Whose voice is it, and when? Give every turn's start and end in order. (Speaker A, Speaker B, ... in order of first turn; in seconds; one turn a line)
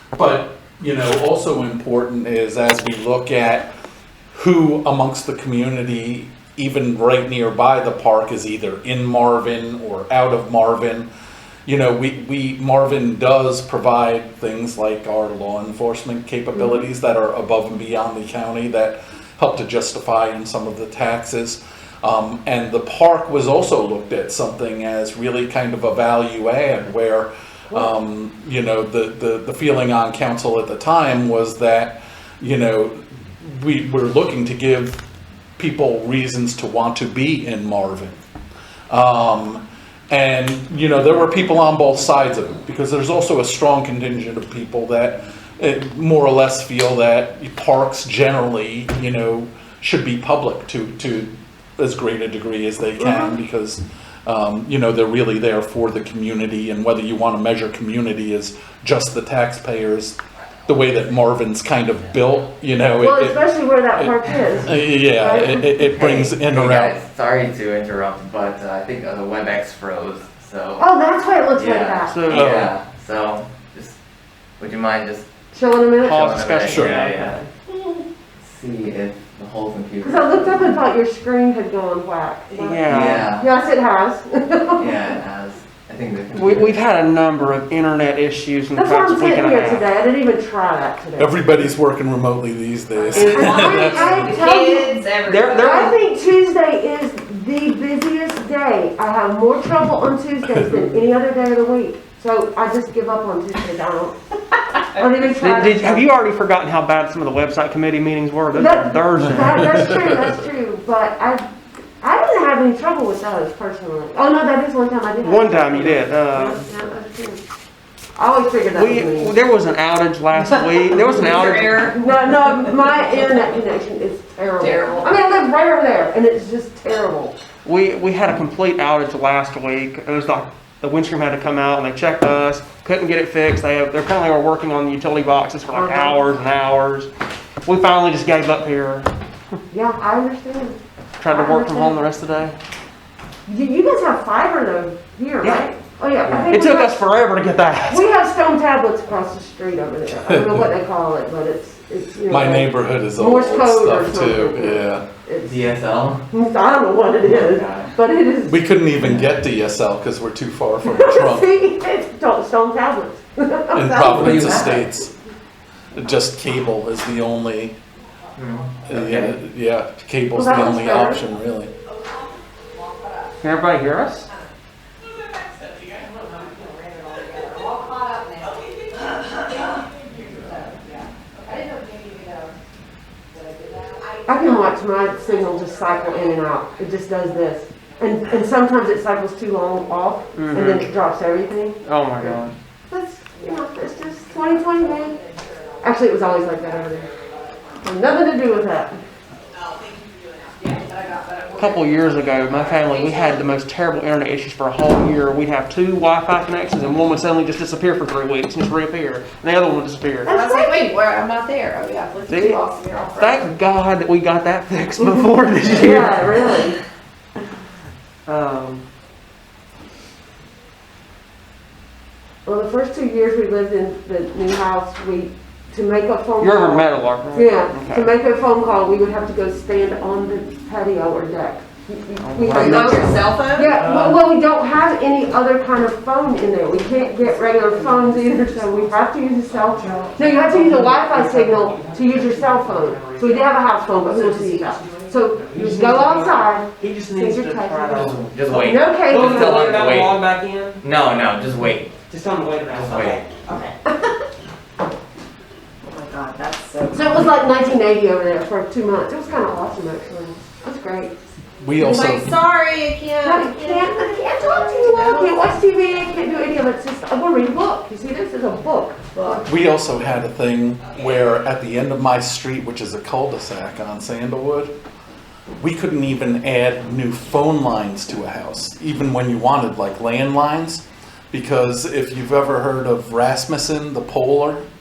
Speaker A: 0.1-3.7
Speaker A: 4.3-11.1
Speaker A: 11.7-35.0
Speaker B: 16.6-16.9
Speaker A: 35.6-38.2
Speaker A: 38.9-63.4
Speaker B: 53.0-53.3
Speaker B: 63.0-65.7
Speaker A: 64.0-67.0
Speaker C: 65.9-70.8
Speaker B: 70.8-72.2
Speaker C: 71.5-74.0
Speaker D: 72.1-72.6
Speaker A: 72.3-72.7
Speaker C: 74.6-75.2
Speaker B: 75.5-76.3
Speaker D: 76.0-77.5
Speaker C: 76.0-77.4
Speaker A: 76.6-77.0
Speaker C: 78.4-80.8
Speaker B: 80.0-85.1
Speaker D: 82.5-83.2
Speaker C: 82.9-83.5
Speaker C: 84.8-86.8
Speaker D: 86.3-89.9
Speaker B: 88.7-91.6
Speaker A: 91.2-94.3
Speaker E: 93.0-95.9
Speaker B: 93.1-104.1
Speaker D: 95.2-96.0
Speaker B: 104.9-106.1
Speaker D: 105.2-109.7
Speaker B: 108.5-111.4
Speaker A: 109.5-110.3
Speaker B: 112.0-117.4
Speaker D: 115.2-116.6
Speaker B: 118.2-119.4
Speaker D: 118.7-121.9
Speaker E: 120.3-122.0
Speaker B: 121.8-127.4
Speaker E: 123.1-123.5
Speaker E: 124.6-125.1
Speaker D: 127.6-137.1
Speaker B: 135.7-136.3
Speaker D: 137.6-139.1
Speaker B: 139.7-140.8
Speaker D: 141.2-142.6
Speaker B: 141.3-142.0
Speaker B: 143.4-147.0
Speaker C: 146.2-146.6
Speaker D: 146.5-148.1
Speaker B: 147.9-155.7
Speaker A: 150.2-150.7
Speaker A: 152.3-155.0
Speaker C: 155.4-156.2
Speaker B: 156.3-158.6
Speaker C: 157.2-157.9
Speaker A: 158.4-161.5
Speaker C: 159.0-159.3
Speaker B: 160.8-164.8
Speaker A: 163.7-165.1
Speaker C: 164.1-164.8
Speaker A: 165.9-167.8
Speaker C: 168.3-169.4
Speaker A: 168.8-171.7
Speaker B: 170.3-171.2
Speaker E: 172.0-173.4
Speaker D: 173.4-174.3
Speaker E: 175.6-182.6
Speaker E: 183.3-186.9
Speaker B: 184.2-192.4
Speaker D: 190.3-190.9
Speaker D: 191.8-192.5
Speaker B: 192.9-195.2
Speaker E: 194.1-197.8
Speaker B: 195.8-197.1
Speaker B: 197.8-199.0
Speaker E: 199.7-203.4
Speaker D: 201.5-210.3
Speaker E: 210.2-213.5
Speaker B: 210.3-210.6
Speaker D: 212.3-216.6
Speaker B: 215.0-216.8
Speaker D: 218.2-218.8
Speaker B: 222.4-249.8
Speaker D: 226.4-228.1
Speaker D: 232.2-233.2
Speaker E: 232.5-233.9
Speaker D: 233.7-234.1
Speaker D: 237.2-238.9
Speaker D: 239.5-250.9
Speaker C: 248.2-250.2
Speaker C: 250.8-251.9
Speaker D: 252.1-253.3
Speaker C: 252.7-253.2
Speaker E: 253.4-253.7
Speaker E: 255.9-257.3
Speaker B: 256.9-261.1
Speaker A: 261.6-262.4
Speaker E: 261.8-265.5
Speaker B: 263.2-269.4
Speaker E: 269.1-269.4
Speaker A: 269.4-274.7
Speaker A: 275.6-284.6